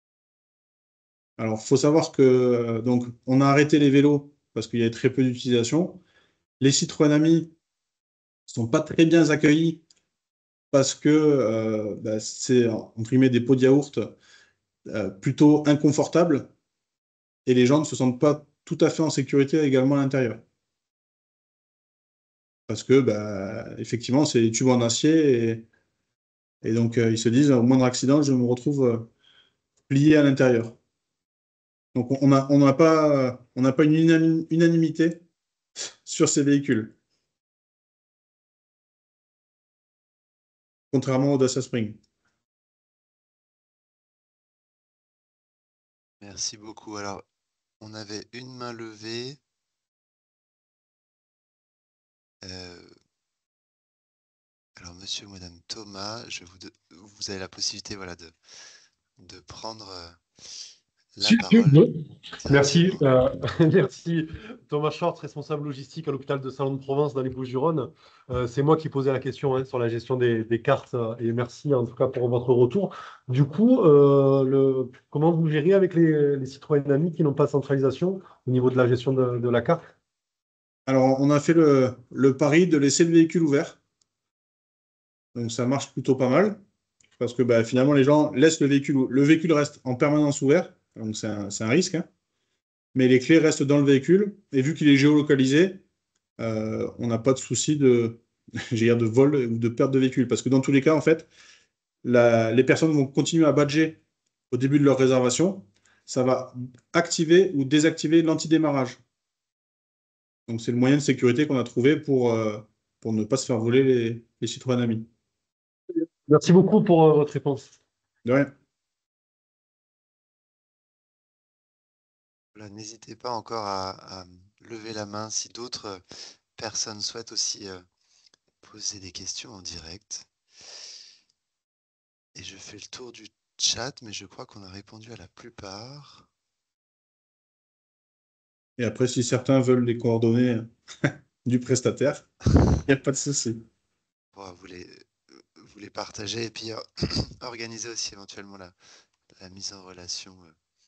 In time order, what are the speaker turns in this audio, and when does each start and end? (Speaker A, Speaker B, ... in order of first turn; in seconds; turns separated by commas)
Speaker A: 1.4-6.0, Speaker A: 6.6-7.5, Speaker A: 8.5-9.8, Speaker A: 10.7-14.1, Speaker A: 14.9-16.5, Speaker A: 17.4-20.4, Speaker A: 22.7-25.6, Speaker A: 26.6-29.1, Speaker A: 29.9-30.8, Speaker A: 31.9-35.2, Speaker A: 36.0-37.0, Speaker A: 40.9-42.0, Speaker B: 46.2-47.2, Speaker B: 47.8-49.4, Speaker B: 52.4-52.9, Speaker B: 54.8-58.3, Speaker B: 59.2-60.6, Speaker B: 61.1-61.9, Speaker C: 61.2-79.9, Speaker B: 62.4-63.1, Speaker A: 80.8-83.8, Speaker A: 85.3-86.6, Speaker A: 87.2-92.1, Speaker A: 92.9-95.8, Speaker A: 96.4-101.3, Speaker A: 102.0-109.0, Speaker A: 110.5-115.1, Speaker C: 116.2-117.8, Speaker A: 118.2-118.5, Speaker B: 122.5-126.0, Speaker B: 126.5-127.8, Speaker B: 128.6-130.3, Speaker B: 132.3-136.3, Speaker A: 138.8-142.3, Speaker A: 142.8-143.6, Speaker B: 144.3-148.7, Speaker B: 149.4-150.5